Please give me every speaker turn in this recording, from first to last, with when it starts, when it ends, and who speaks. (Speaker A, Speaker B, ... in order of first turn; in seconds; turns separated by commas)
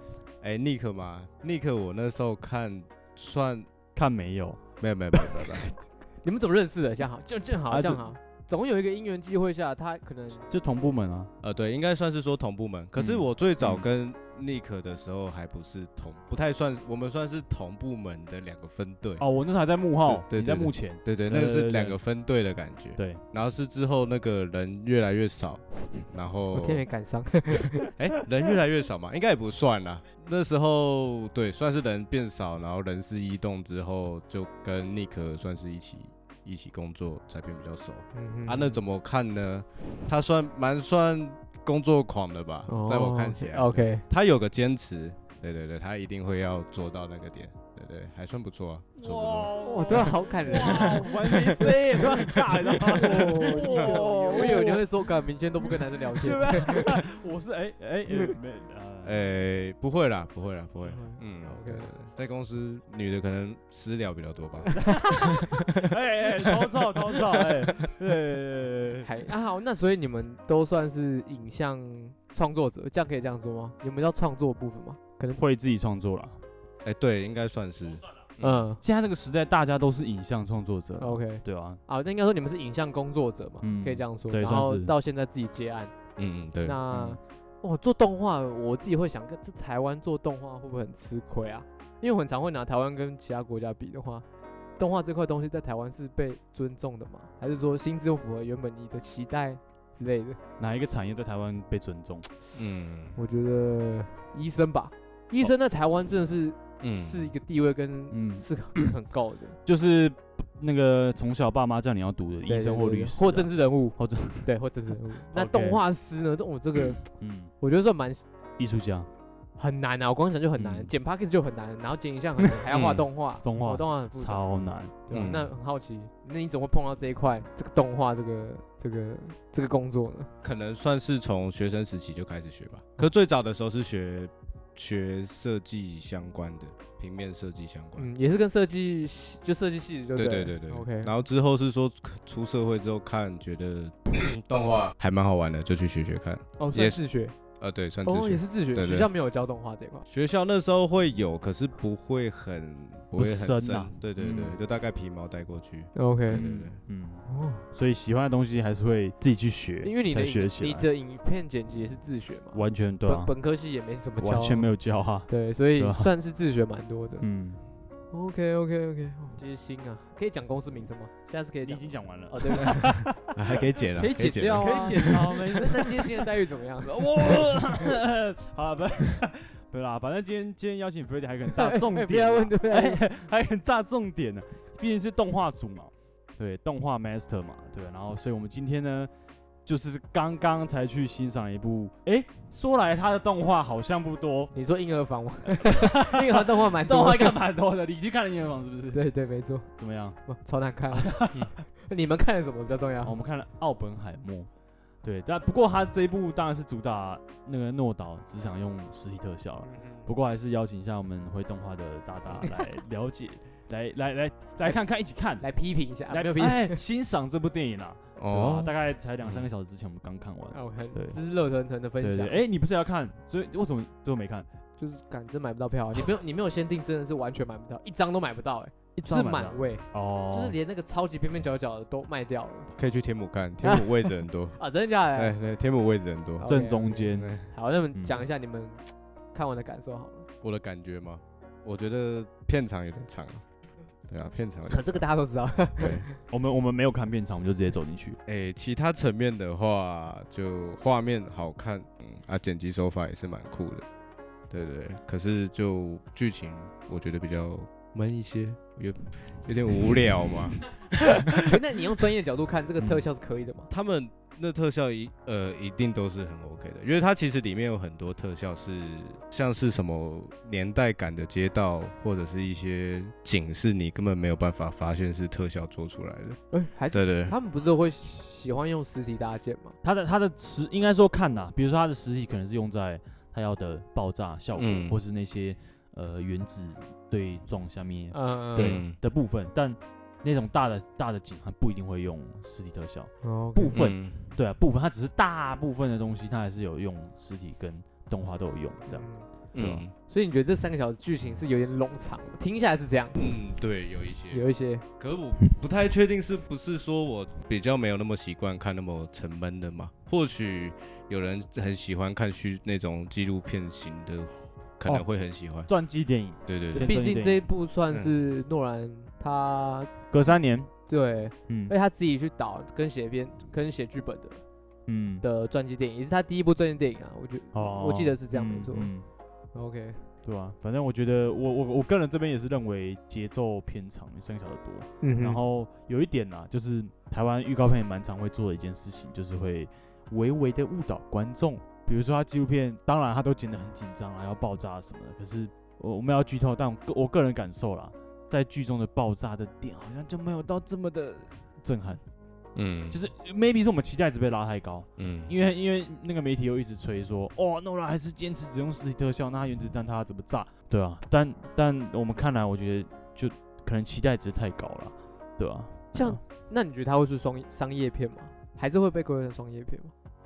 Speaker A: 0.4-3.7, Speaker B: 3.9-4.6, Speaker A: 4.8-5.6, Speaker C: 5.2-10.5, Speaker B: 7.7-8.0, Speaker B: 10.5-11.3, Speaker A: 11.4-19.2, Speaker B: 13.0-13.8, Speaker B: 19.2-22.0, Speaker A: 20.1-26.8, Speaker C: 26.5-27.9, Speaker A: 28.0-49.5, Speaker C: 38.1-38.8, Speaker C: 42.7-44.0, Speaker B: 49.0-59.2, Speaker C: 49.6-57.0, Speaker A: 59.0-64.8, Speaker C: 60.9-61.9, Speaker C: 64.7-65.9, Speaker B: 64.8-69.1, Speaker C: 67.1-67.7, Speaker C: 69.0-75.4, Speaker B: 75.3-76.4, Speaker A: 76.8-78.6, Speaker C: 78.4-78.8, Speaker B: 78.8-81.8, Speaker C: 81.0-85.9, Speaker B: 83.6-84.9, Speaker A: 86.2-86.8, Speaker C: 86.6-94.2, Speaker B: 86.9-87.2, Speaker C: 94.8-100.4, Speaker B: 100.6-102.3, Speaker A: 102.5-103.2, Speaker C: 103.1-109.6, Speaker A: 106.8-107.3, Speaker B: 108.1-108.5, Speaker B: 109.7-114.5, Speaker C: 112.5-117.0, Speaker B: 115.3-115.8, Speaker B: 117.2-117.5, Speaker C: 117.6-118.2, Speaker B: 118.6-119.1, Speaker C: 119.6-124.5, Speaker B: 120.6-120.9, Speaker A: 122.7-123.0, Speaker B: 123.4-125.0, Speaker C: 125.0-130.3, Speaker A: 125.1-125.5, Speaker A: 130.4-138.1, Speaker C: 138.0-141.1, Speaker A: 140.2-147.0, Speaker C: 146.6-147.3, Speaker A: 147.6-149.1, Speaker C: 148.0-150.1, Speaker A: 150.1-156.8, Speaker B: 153.2-154.5, Speaker C: 155.9-156.4, Speaker B: 156.3-160.8, Speaker C: 157.2-157.6, Speaker C: 159.8-164.7, Speaker B: 162.5-163.3, Speaker B: 164.2-166.1, Speaker C: 165.3-167.2, Speaker B: 167.2-167.7, Speaker C: 168.1-173.1, Speaker B: 171.6-173.9, Speaker A: 173.3-175.3, Speaker C: 174.0-176.9, Speaker B: 174.6-189.1, Speaker C: 181.5-183.0, Speaker B: 189.7-194.5, Speaker C: 194.5-197.4, Speaker B: 195.5-199.1, Speaker C: 198.9-199.7, Speaker B: 199.8-200.2, Speaker C: 200.2-203.2, Speaker B: 200.9-201.5, Speaker B: 203.0-204.5, Speaker B: 205.0-215.5, Speaker C: 209.6-210.1, Speaker C: 215.4-216.8, Speaker B: 216.1-221.2, Speaker A: 218.2-219.5, Speaker C: 220.5-222.4, Speaker B: 222.0-224.5, Speaker C: 224.8-232.7, Speaker B: 228.9-230.6, Speaker A: 232.7-234.6, Speaker C: 233.6-235.3, Speaker A: 235.1-236.5, Speaker C: 236.4-240.3, Speaker B: 236.5-237.3, Speaker A: 237.1-237.5, Speaker B: 237.9-238.3, Speaker A: 240.4-243.4, Speaker A: 244.1-245.1, Speaker C: 244.7-246.2, Speaker A: 245.8-246.1, Speaker B: 246.3-248.2, Speaker A: 248.2-253.8, Speaker A: 254.5-261.0, Speaker C: 261.3-263.7, Speaker B: 262.8-263.0, Speaker A: 263.7-276.4, Speaker C: 276.5-279.8, Speaker A: 276.9-277.3, Speaker B: 279.8-299.1, Speaker A: 284.5-285.0, Speaker C: 288.1-288.8, Speaker A: 288.6-289.0, Speaker C: 293.2-293.8, Speaker A: 293.7-294.2, Speaker C: 298.9-299.3, Speaker A: 299.5-299.9, Speaker C: 300.0-303.2, Speaker A: 303.1-304.4, Speaker C: 304.3-304.8, Speaker A: 305.0-315.7, Speaker B: 315.7-317.5, Speaker A: 316.5-316.9, Speaker C: 316.7-320.3, Speaker A: 317.9-318.3, Speaker B: 320.1-320.7, Speaker C: 320.9-324.4, Speaker B: 321.5-321.7, Speaker B: 324.9-325.2, Speaker C: 325.2-328.9, Speaker B: 327.5-329.1, Speaker C: 329.5-330.0, Speaker B: 330.2-352.0, Speaker C: 335.0-335.4, Speaker A: 352.5-353.0, Speaker B: 352.9-366.2, Speaker A: 355.0-355.3, Speaker C: 365.9-369.9